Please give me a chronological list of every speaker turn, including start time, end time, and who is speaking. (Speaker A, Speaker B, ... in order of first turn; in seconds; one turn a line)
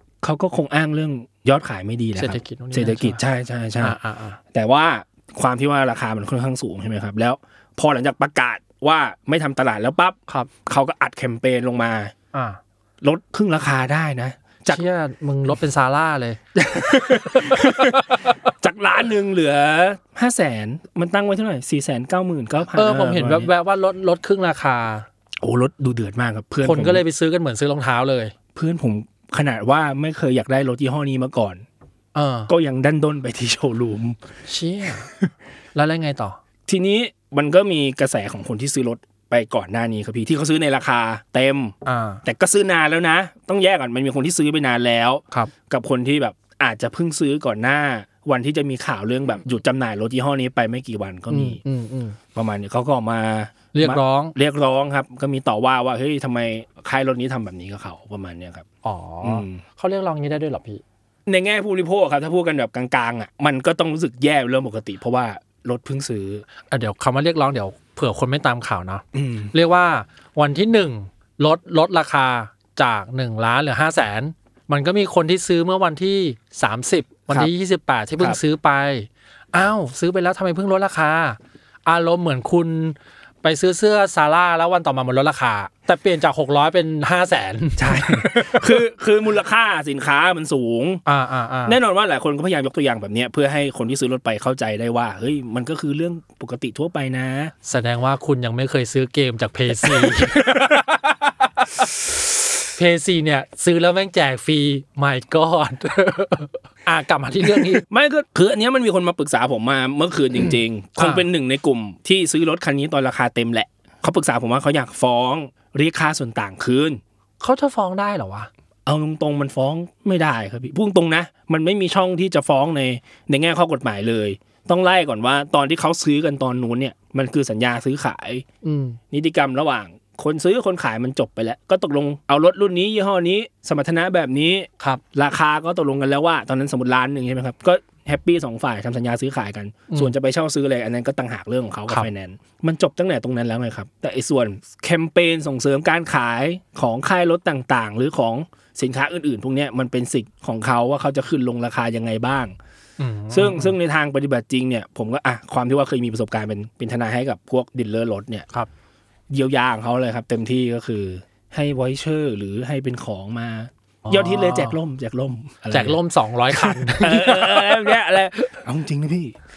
Speaker A: 0.2-4.0
Speaker B: 2.1-3.2
Speaker B: 3.8-4.4
Speaker A: 4.5-12.1
Speaker B: 12.3-12.6
Speaker A: 13.0-14.8
Speaker B: 14.7-16.4
Speaker A: 16.6-18.0
Speaker B: 17.1-18.3
Speaker A: 18.6-23.5
Speaker B: 22.7-25.1
Speaker A: 25.4-27.0
Speaker B: 26.6-28.3
Speaker A: 28.5-31.6
Speaker B: 32.1-32.5
Speaker A: 32.5-34.2
Speaker B: 34.5-35.1
Speaker B: 35.7-36.4
Speaker A: 36.6-51.6
Speaker B: 41.8-42.2
Speaker B: 51.3-52.2
Speaker A: 52.3-58.6
Speaker B: 53.7-54.3
Speaker B: 58.8-60.8
Speaker A: 59.2-59.6
Speaker A: 61.2-66.5
Speaker B: 66.7-88.6
Speaker A: 69.1-69.5
Speaker A: 87.8-91.0
Speaker B: 91.0-91.8
Speaker A: 91.7-97.5
Speaker B: 97.6-101.9
Speaker A: 99.8-100.8
Speaker B: 102.7-107.8
Speaker A: 107.5-117.0
Speaker B: 111.0-111.2
Speaker B: 117.4-118.5
Speaker A: 118.8-128.4
Speaker B: 128.6-129.0
Speaker A: 129.1-152.5
Speaker B: 153.0-153.8
Speaker A: 153.3-158.5
Speaker A: 159.3-169.4
Speaker B: 164.1-164.7
Speaker B: 165.7-168.0